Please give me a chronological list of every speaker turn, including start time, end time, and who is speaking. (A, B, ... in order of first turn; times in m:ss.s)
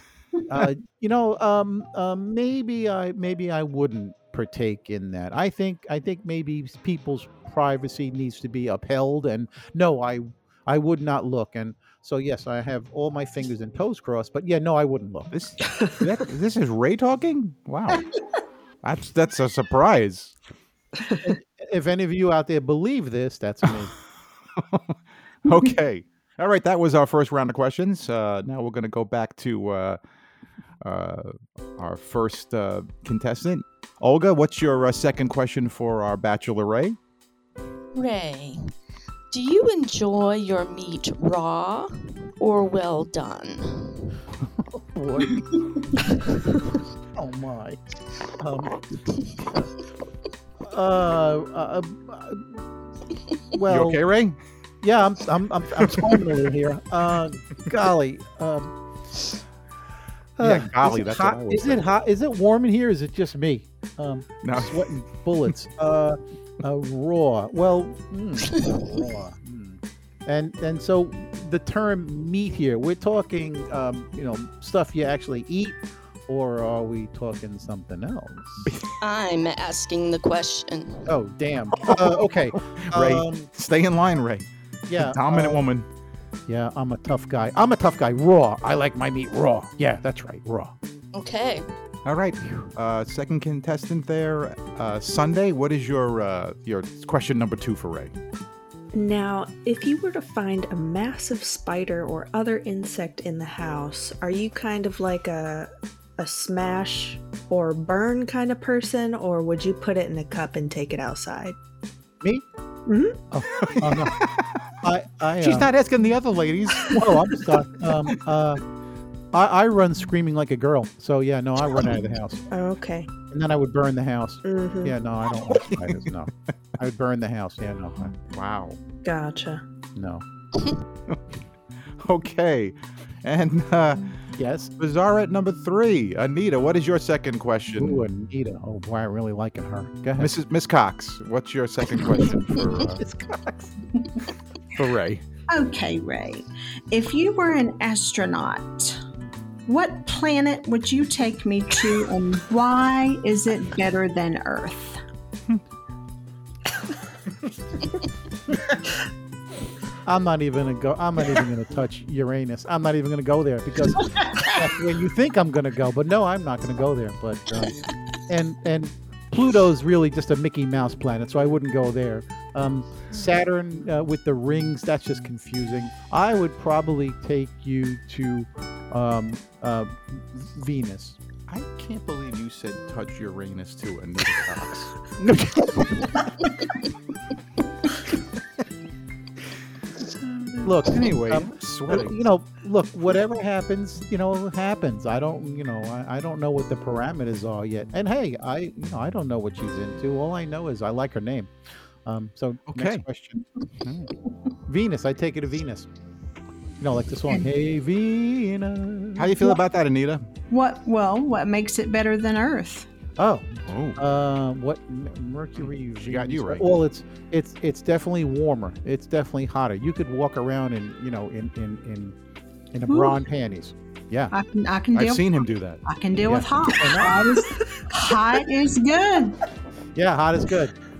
0:00.5-0:15.3 A
0:15.3-0:18.1 B
0:18.8-0:20.3 B
0:21.2-0:23.9 A
0:24.5-0:30.0 B
0:30.8-0:37.0 B
0:37.9-0:38.7 C
0:39.3-0:44.2 C
0:44.6-0:45.5 A
0:47.1-0:47.8 A
0:48.4-0:49.7 A
0:50.6-0:52.6 A
0:53.5-0:54.0 A
0:53.7-0:54.4 B
0:54.8-0:58.7 A
0:55.8-0:56.2 B
1:00.4-1:18.7 A
1:00.4-1:01.9 B
1:04.4-1:04.9 B
1:18.6-1:19.0 B
1:19.0-1:21.1 C
1:21.0-1:23.5 A
1:21.7-1:25.9 B
1:24.9-1:25.6 A
1:26.5-1:30.7 A
1:31.1-1:31.6 C
1:32.0-1:38.1 B
1:38.9-1:51.6 D
1:52.9-1:53.2 D
1:53.3-1:54.2 A
1:53.6-1:54.6 B
1:54.8-1:55.7 A
1:55.4-1:57.4 B
1:56.9-1:58.6 A
1:59.3-2:02.4 A
2:02.5-2:03.1 D
2:03.3-2:08.0 A
2:04.4-2:04.9 D
2:05.5-2:06.3 B
2:08.0-2:08.8 B
2:09.0-2:09.6 D
2:10.0-2:10.2 A
2:12.0-2:14.1 B
2:14.4-2:14.7 A
2:14.8-2:18.1 B
2:17.8-2:20.3 A
2:20.2-2:23.0 B
2:22.5-2:23.7 A
2:24.7-2:25.2 B
2:25.5-2:29.0 E
2:29.7-2:35.0 E
2:40.0-3:01.2 A
2:43.9-2:44.5 E
3:01.5-3:05.0 B
3:05.2-3:06.3 A
3:10.6-3:21.5 A
3:10.6-3:12.2 B
3:22.0-3:23.4 A
3:22.7-3:23.0 B
3:23.8-3:24.1 B
3:24.6-3:25.9 A
3:26.8-3:29.6 A
3:29.2-3:30.3 B
3:30.5-3:32.9 E
3:33.2-3:42.2 A
3:33.6-3:34.0 B
3:35.6-3:36.7 B
3:42.7-3:44.3 A
3:42.9-3:43.2 E
3:44.3-3:49.4 E
3:44.9-3:45.8 B
3:46.2-3:47.2 A
3:49.9-3:50.7 A